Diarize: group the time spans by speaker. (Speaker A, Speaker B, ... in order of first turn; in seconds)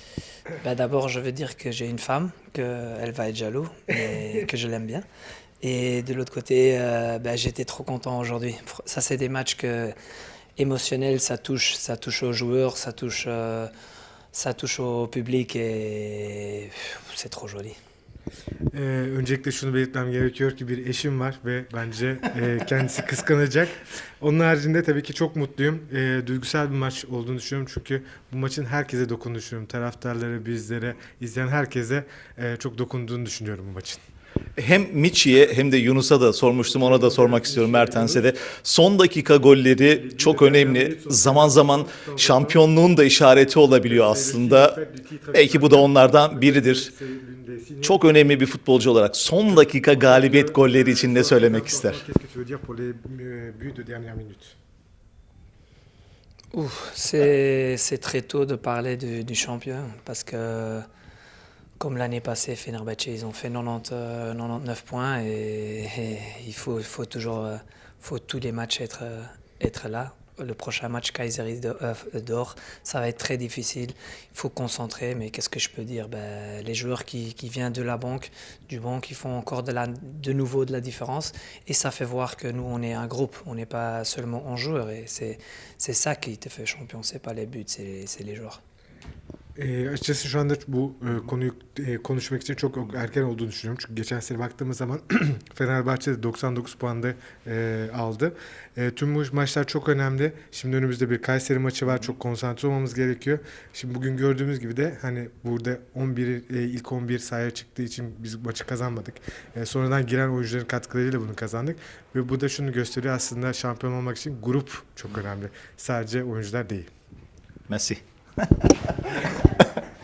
Speaker A: 0.6-5.0, 5.6-9.9, 10.6-13.7, 14.3-17.8, 56.5-60.8, 61.8-88.6
Speaker B: 18.7-34.0, 36.6-38.3, 39.8-42.6, 43.5-48.1, 49.5-54.5, 89.5-116.9
Speaker C: 34.6-44.8, 45.3-46.9, 47.8-52.0, 117.7-118.0, 118.6-119.1